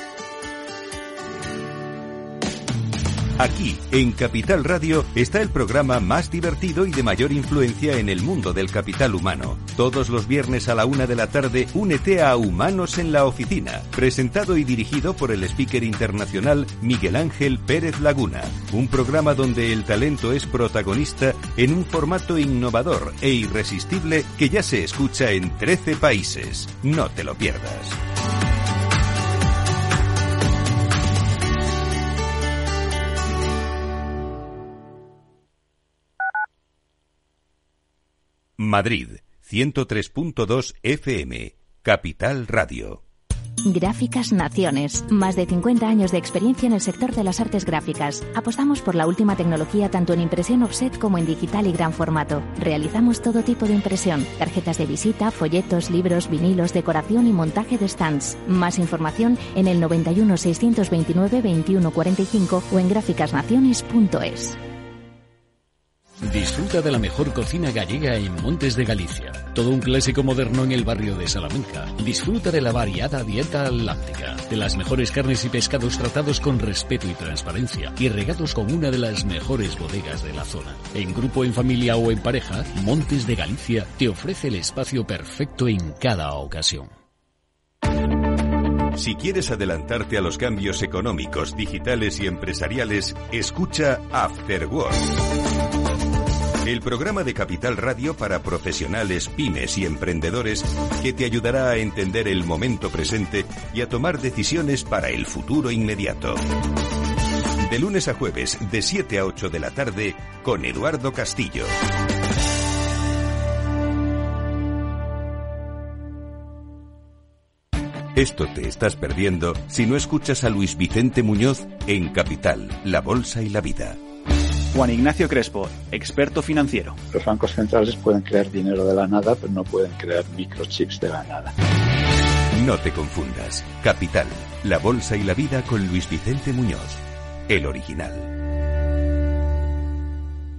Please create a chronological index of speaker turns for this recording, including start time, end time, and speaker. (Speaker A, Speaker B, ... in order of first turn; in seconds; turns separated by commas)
Speaker A: 3.4-28.0, Speaker A: 38.6-43.0, Speaker B: 43.7-64.6, Speaker C: 66.2-86.9, Speaker A: 88.9-95.1, Speaker A: 96.6-106.4, Speaker A: 107.6-111.7, Speaker A: 118.1-124.0, Speaker D: 124.7-127.0, Speaker E: 127.1-131.5, Speaker A: 132.5-138.3